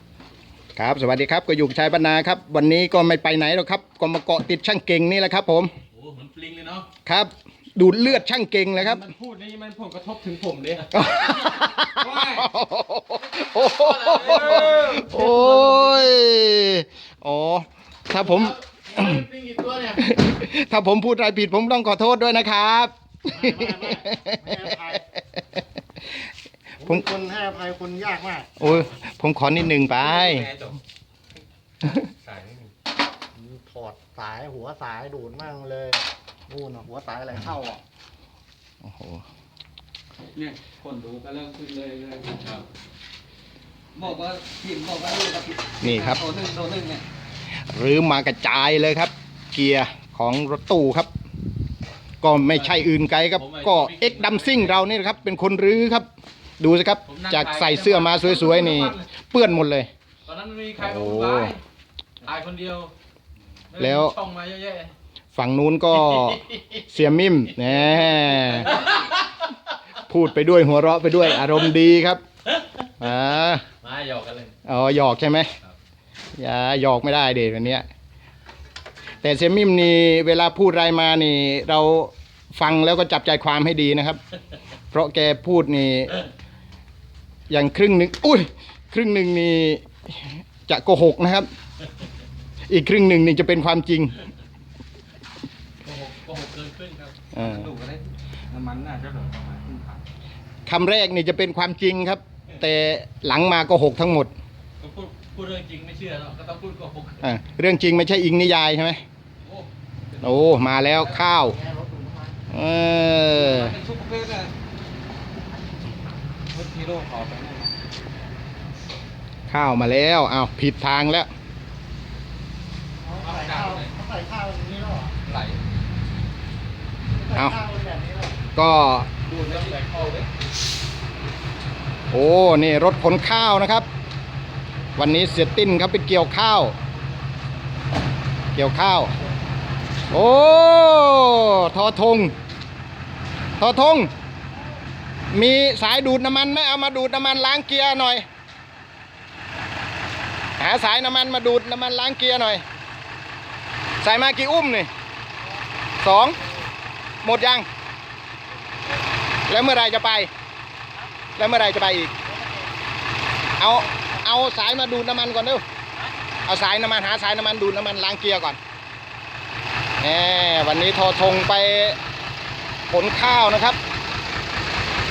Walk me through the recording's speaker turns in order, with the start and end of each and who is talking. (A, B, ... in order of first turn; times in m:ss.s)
0:00.8-0:05.7 A
0:05.9-0:06.9 B
0:07.1-0:09.1 A
0:08.9-0:10.9 B
0:10.9-0:19.3 A
0:12.0-0:12.4 B
0:14.0-0:15.0 B
0:14.3-0:15.6 C
0:19.8-0:24.6 A
0:23.3-0:25.0 D
0:26.8-0:28.5 D
0:28.6-0:30.5 A
0:30.3-0:30.8 B
0:32.2-0:32.7 B
0:33.3-0:37.8 D
0:38.8-0:39.2 A
0:40.4-0:42.4 C
0:42.4-0:42.6 B
0:43.9-0:47.0 C
0:45.8-0:46.2 A
0:47.6-0:51.1 A
0:52.2-0:56.1 A
0:52.5-0:52.8 B
0:53.4-0:54.8 B
0:56.6-0:59.9 A
0:57.0-0:59.0 B
1:00.3-1:01.6 B
1:00.8-1:01.6 A
1:02.2-1:02.9 B
1:03.7-1:04.9 B
1:03.8-1:04.2 A
1:05.4-1:08.8 A
1:05.9-1:06.8 B
1:07.6-1:09.2 B
1:10.1-1:12.2 A
1:12.5-1:12.9 B
1:13.0-1:13.6 A
1:13.8-1:14.6 B
1:14.7-1:15.5 A
1:16.4-1:17.9 A
1:19.2-1:24.2 A
1:24.9-1:26.2 A
1:27.5-1:31.5 A
1:32.7-1:34.2 A
1:35.8-1:37.3 B
1:37.4-1:37.7 A
1:37.4-1:40.0 C
1:38.5-1:39.6 B
1:40.7-1:44.3 A
1:44.8-1:47.2 B
1:47.2-1:49.0 A
1:50.2-1:51.6 A
1:51.3-1:52.4 D
1:52.5-1:53.8 A
1:53.6-1:54.4 B
1:57.2-1:57.4 C
1:59.5-2:01.3 A
2:03.0-2:05.2 D
2:05.3-2:05.5 C
2:07.1-2:08.4 D
2:08.6-2:09.1 A
2:09.3-2:10.3 C
2:09.3-2:10.2 D
2:12.1-2:13.9 A
2:15.0-2:16.8 A
2:18.6-2:19.1 A
2:20.1-2:22.4 A
2:23.6-2:24.1 A
2:25.3-2:28.3 A
2:30.6-2:32.6 A
2:34.0-2:34.9 A
2:36.0-2:36.4 A
2:37.2-2:37.7 A
2:39.5-2:40.3 A
2:41.4-2:42.1 A
2:42.2-2:42.7 D
2:43.6-2:45.6 A
2:46.5-2:48.6 A
2:50.0-2:52.0 A
2:52.9-2:53.8 A